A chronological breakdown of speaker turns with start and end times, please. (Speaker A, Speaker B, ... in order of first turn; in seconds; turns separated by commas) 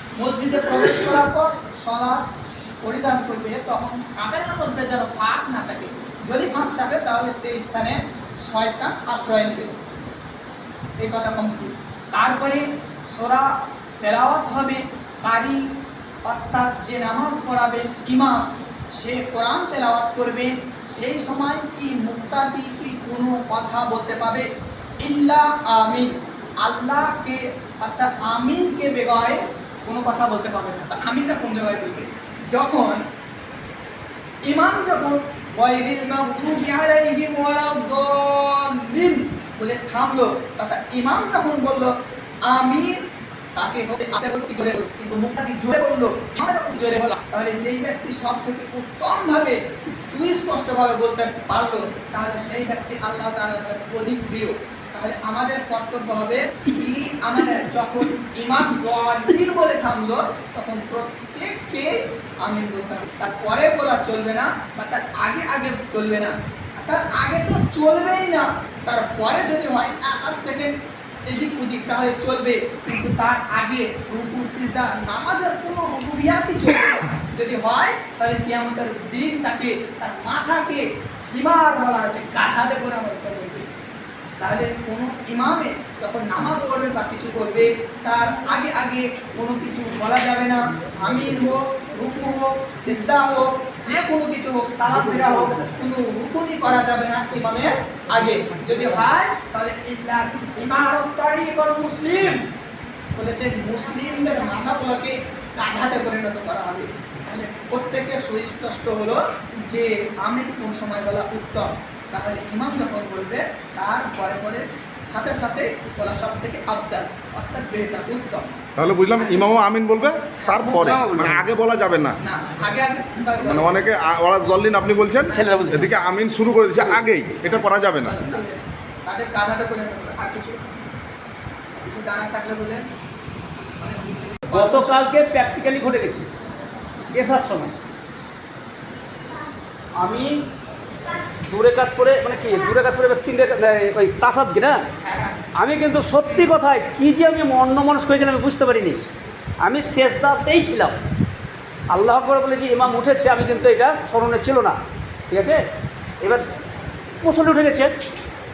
Speaker A: 0.2-2.3, Speaker A: 2.8-9.7, Speaker A: 11.0-15.7, Speaker A: 16.2-24.5, Speaker A: 25.0-33.0, Speaker A: 34.4-83.7, Speaker A: 84.4-102.5, Speaker B: 94.9-95.8, Speaker B: 98.2-99.0, Speaker A: 103.2-118.6, Speaker C: 118.8-122.2, Speaker A: 120.4-120.9, Speaker B: 120.6-121.5, Speaker A: 122.2-123.8, Speaker C: 123.4-128.2, Speaker B: 125.3-125.9, Speaker A: 128.0-130.6, Speaker A: 131.8-132.8, Speaker A: 133.8-135.0, Speaker B: 134.5-136.3, Speaker B: 137.1-137.7, Speaker B: 140.0-140.5, Speaker B: 141.4-144.8, Speaker A: 145.1-145.3, Speaker B: 145.6-149.1, Speaker B: 149.6-151.0, Speaker B: 151.9-154.8, Speaker B: 155.3-155.6, Speaker B: 156.2-156.4, Speaker B: 157.2-157.9